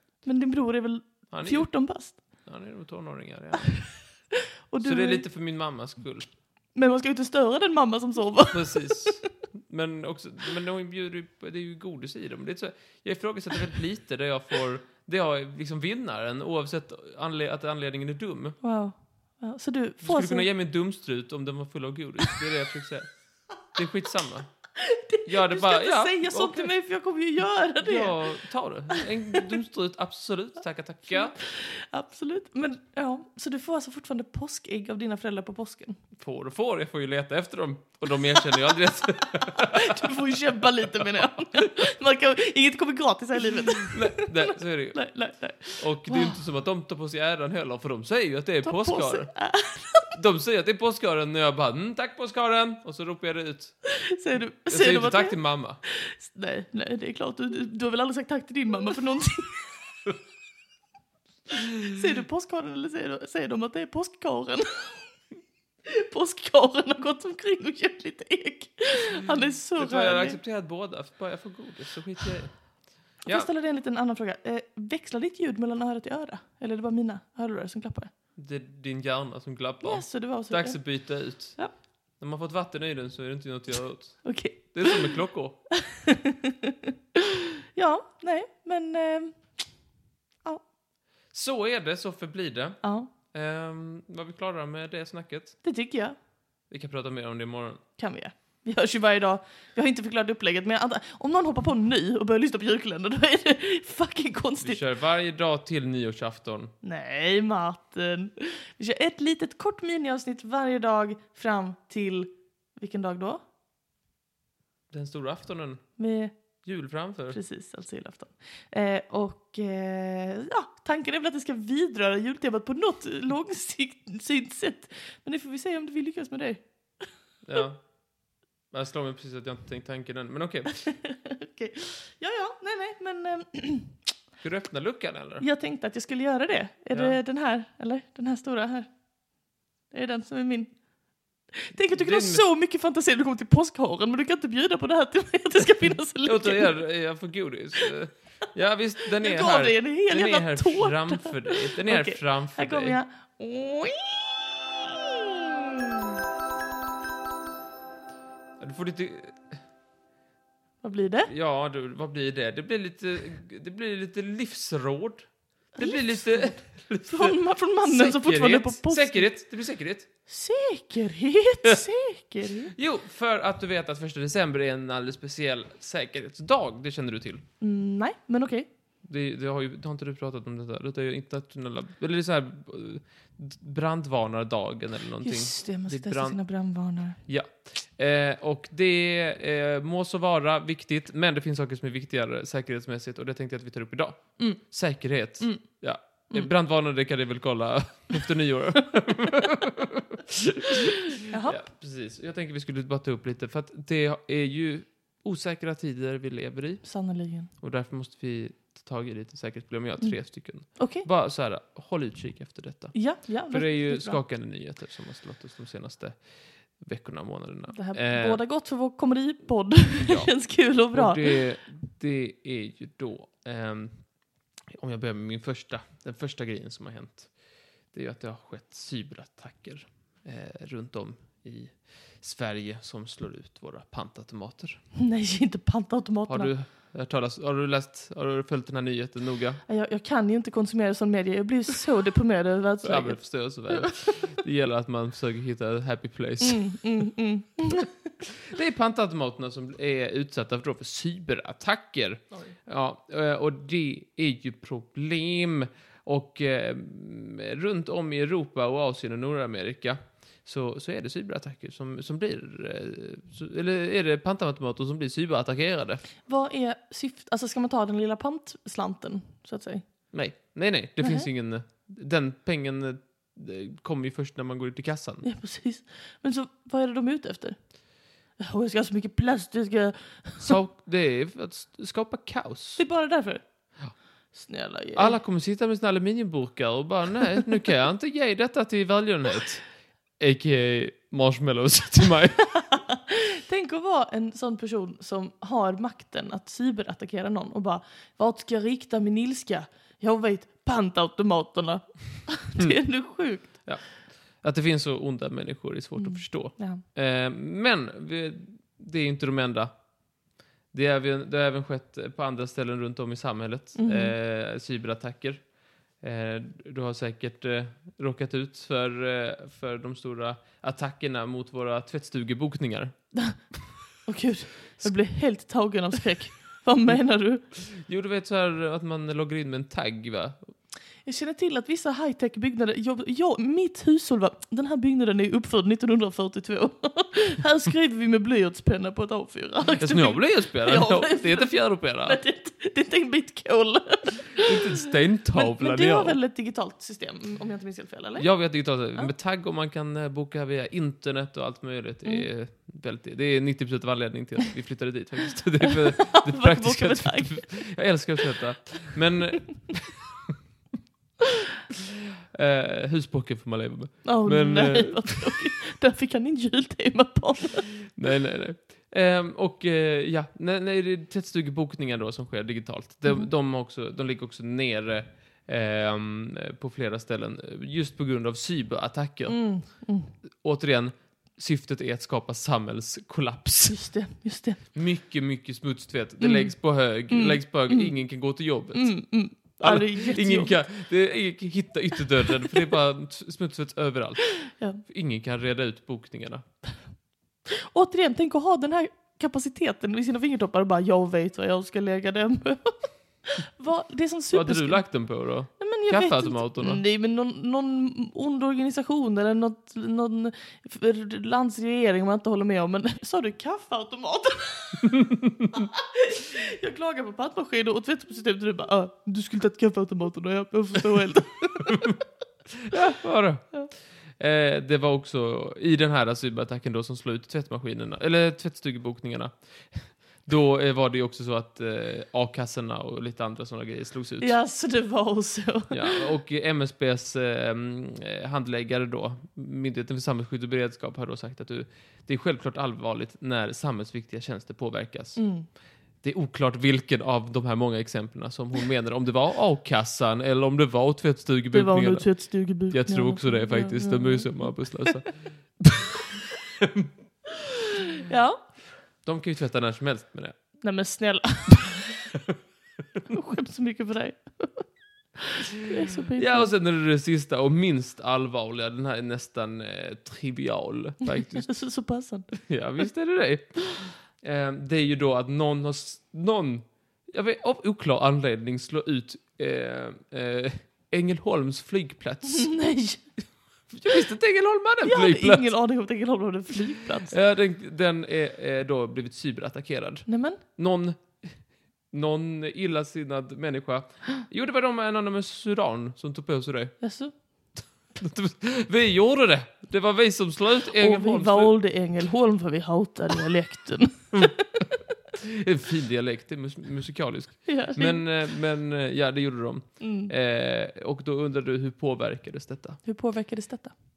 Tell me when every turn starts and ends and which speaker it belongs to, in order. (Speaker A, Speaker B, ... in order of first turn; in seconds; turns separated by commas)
Speaker A: 0.2-2.2, Speaker B: 1.3-4.0, Speaker A: 4.7-5.2, Speaker B: 4.8-6.3, Speaker A: 6.7-9.2, Speaker B: 8.5-18.6, Speaker A: 18.6-20.5, Speaker B: 20.0-24.5, Speaker A: 24.8-28.4, Speaker B: 25.2-26.7, Speaker B: 27.8-31.4, Speaker A: 31.1-36.0, Speaker B: 36.2-40.1, Speaker A: 39.6-46.4, Speaker B: 43.8-49.3, Speaker A: 48.6-50.1, Speaker B: 50.1-53.8, Speaker A: 54.1-59.7, Speaker B: 54.6-55.8, Speaker A: 61.9-65.0, Speaker A: 65.9-70.4, Speaker B: 69.8-73.5, Speaker A: 73.2-78.1, Speaker B: 78.4-85.6, Speaker A: 79.8-81.7, Speaker A: 84.2-85.1, Speaker A: 85.9-86.7, Speaker A: 87.7-89.6, Speaker B: 91.3-95.6, Speaker A: 92.8-93.1, Speaker A: 95.6-96.2, Speaker B: 96.7-97.8, Speaker A: 98.0-104.8, Speaker B: 104.6-106.7, Speaker A: 106.8-113.4, Speaker B: 114.9-116.0, Speaker A: 116.0-116.4, Speaker B: 116.6-117.4, Speaker A: 117.3-126.6, Speaker B: 127.4-127.9, Speaker B: 128.7-130.8, Speaker A: 130.8-134.0, Speaker B: 134.4-135.5, Speaker A: 135.4-138.9, Speaker B: 136.9-137.2, Speaker A: 139.9-140.7, Speaker A: 141.6-146.8, Speaker B: 141.8-142.4, Speaker B: 146.2-153.0, Speaker A: 149.2-155.9, Speaker B: 158.6-159.6, Speaker A: 160.8-161.3, Speaker B: 161.3-170.1, Speaker A: 165.8-169.3, Speaker A: 170.3-172.8, Speaker B: 172.8-177.4, Speaker A: 177.6-178.7, Speaker B: 179.0-186.4, Speaker A: 185.2-187.2, Speaker B: 187.2-206.9, Speaker A: 201.2-201.6, Speaker A: 206.8-207.5, Speaker B: 207.5-218.4, Speaker A: 210.0-211.1, Speaker A: 212.9-214.2, Speaker A: 217.7-221.5, Speaker B: 220.0-224.1, Speaker B: 224.8-227.3, Speaker B: 227.9-234.8, Speaker A: 235.0-236.5, Speaker B: 236.3-239.6, Speaker A: 239.7-244.1, Speaker B: 242.8-247.0, Speaker A: 246.4-248.0, Speaker B: 248.3-266.1, Speaker A: 266.3-269.9, Speaker B: 270.1-275.3, Speaker A: 271.0-271.3, Speaker A: 275.2-277.8, Speaker A: 278.4-280.6, Speaker B: 280.4-282.9, Speaker A: 282.8-283.4, Speaker A: 284.3-285.2, Speaker B: 284.9-292.6, Speaker A: 292.6-303.6, Speaker B: 302.6-302.8, Speaker B: 303.5-309.8, Speaker A: 305.9-306.8, Speaker B: 310.7-322.9, Speaker A: 313.8-314.1, Speaker A: 324.1-327.4, Speaker B: 327.5-330.5, Speaker A: 331.1-344.6, Speaker B: 339.8-342.2, Speaker B: 344.4-346.2, Speaker A: 345.3-349.1, Speaker B: 348.2-360.0, Speaker A: 355.7-357.8, Speaker B: 362.4-365.4, Speaker A: 364.0-367.9, Speaker B: 368.0-379.8, Speaker A: 379.3-380.1, Speaker B: 380.4-383.9, Speaker A: 383.7-384.7, Speaker B: 384.7-389.0, Speaker A: 386.2-387.9, Speaker A: 388.7-390.6, Speaker B: 389.6-396.4, Speaker A: 394.6-394.8, Speaker A: 397.7-404.9, Speaker B: 404.3-406.8, Speaker A: 405.6-415.0, Speaker A: 415.5-422.0, Speaker B: 421.7-422.0, Speaker B: 422.6-434.4, Speaker A: 434.2-436.1, Speaker B: 435.7-445.3, Speaker A: 445.2-445.5, Speaker B: 446.0-456.0, Speaker A: 451.5-454.9, Speaker B: 456.6-456.9, Speaker A: 458.1-458.5, Speaker B: 459.0-460.4, Speaker A: 460.6-461.9, Speaker A: 463.1-466.5, Speaker B: 466.1-471.6, Speaker A: 471.1-472.4, Speaker B: 472.3-482.6, Speaker A: 482.2-483.1, Speaker B: 483.7-485.5, Speaker A: 484.8-487.1, Speaker B: 487.1-496.8, Speaker A: 490.1-490.4, Speaker A: 496.8-497.1, Speaker B: 498.0-501.6, Speaker A: 500.8-504.6, Speaker B: 505.2-512.8, Speaker A: 507.4-508.1, Speaker A: 509.8-510.1, Speaker A: 512.8-513.8